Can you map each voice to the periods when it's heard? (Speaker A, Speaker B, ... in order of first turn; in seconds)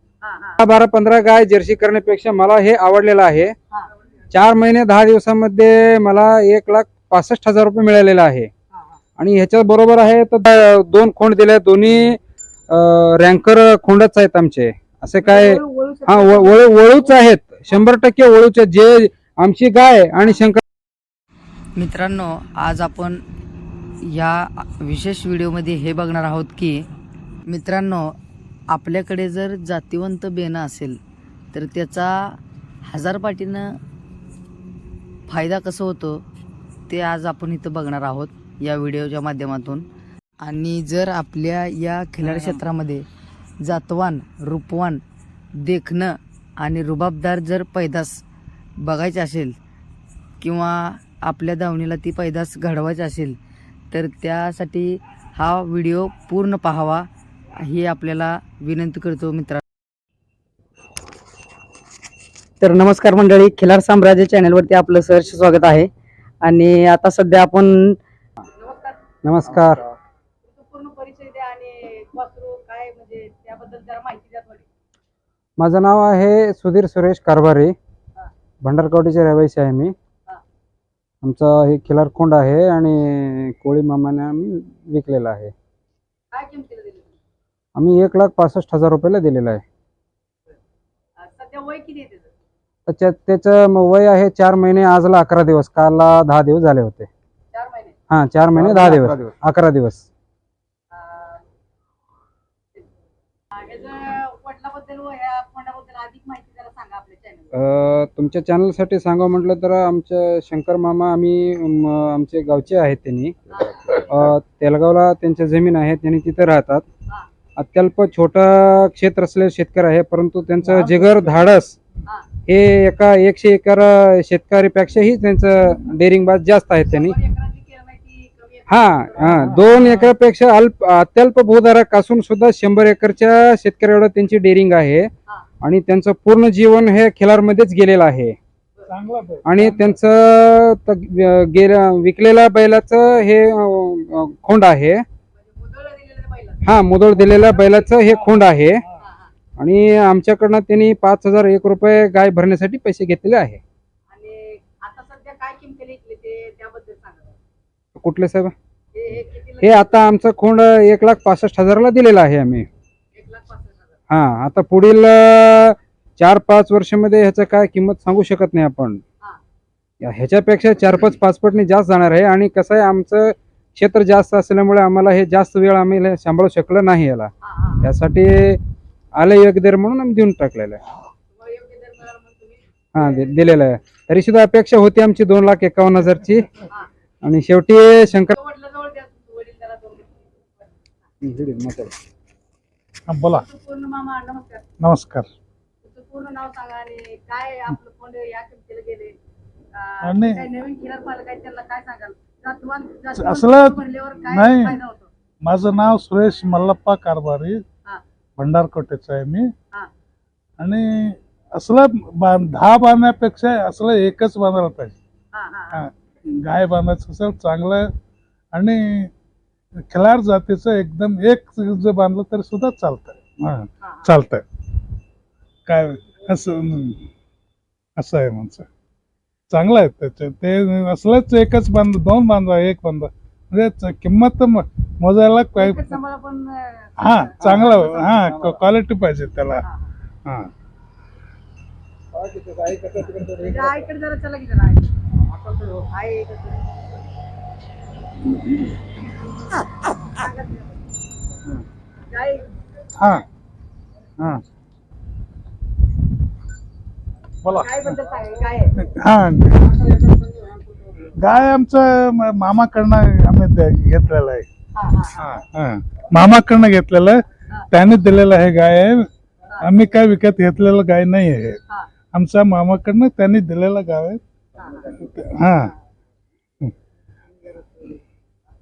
Speaker A: 0.2-0.6, 8.7-9.0, 15.2-17.1, 68.5-69.0, 70.4-74.7, 86.3-87.2, 91.2-92.3, 97.5-98.0, 100.9-101.4, 103.5-107.5, 113.6-113.8, 126.9-130.1, 145.4-148.0, 149.0-149.3, 154.1-157.4, 158.9-160.0, 163.1-163.9, 177.4-177.9, 181.3-183.2, 188.3-190.8, 193.3-194.7, 195.8-199.2, 199.7-205.1, 215.3-215.9, 223.8-224.1, 235.6-238.2, 239.6-239.9, 243.2-244.9, 245.7-246.7, 249.8-250.8, 252.1-252.5, 257.5-258.8, 264.7-265.3, 274.6-274.9, 277.5-277.9
Speaker B: 0.6-3.5, 4.3-8.5, 9.2-12.2, 12.7-20.6, 69.2-69.8, 75.6-77.7, 78.6-79.9, 81.2-85.5, 87.8-89.6, 92.9-97.1, 98.1-100.0, 107.5-116.8, 117.5-121.8, 122.5-127.1, 128.7-135.1, 135.6-138.3, 139.4-145.0, 146.6-148.8, 149.6-153.6, 158.0-158.5, 159.6-162.7, 164.1-169.0, 170.0-178.6, 179.2-180.8, 182.9-186.5, 187.2-188.3, 191.2-191.9, 237.4-237.7
Speaker C: 21.8-23.2, 24.0-26.9, 27.5-28.2, 28.7-31.0, 31.5-33.8, 35.3-36.2, 36.9-39.9, 40.4-43.0, 43.6-45.0, 45.6-48.2, 48.8-49.5, 50.4-53.4, 53.9-57.1, 57.6-59.6
Speaker D: 62.6-65.9, 66.4-68.0
Speaker E: 120.7-121.2, 129.3-129.9, 138.9-139.8, 193.1-193.4, 194.8-195.3, 200.0-200.4, 203.2-204.8, 205.4-207.6, 208.4-209.5, 210.6-215.0, 215.7-217.9, 218.5-219.1, 219.9-224.4, 225.7-227.0, 228.0-228.7, 229.5-235.9, 237.0-239.6, 253.0-253.2, 257.4-257.9, 258.9-259.9, 261.1-264.5, 265.2-267.2, 267.7-269.1, 269.6-271.6, 272.1-274.2, 275.0-275.7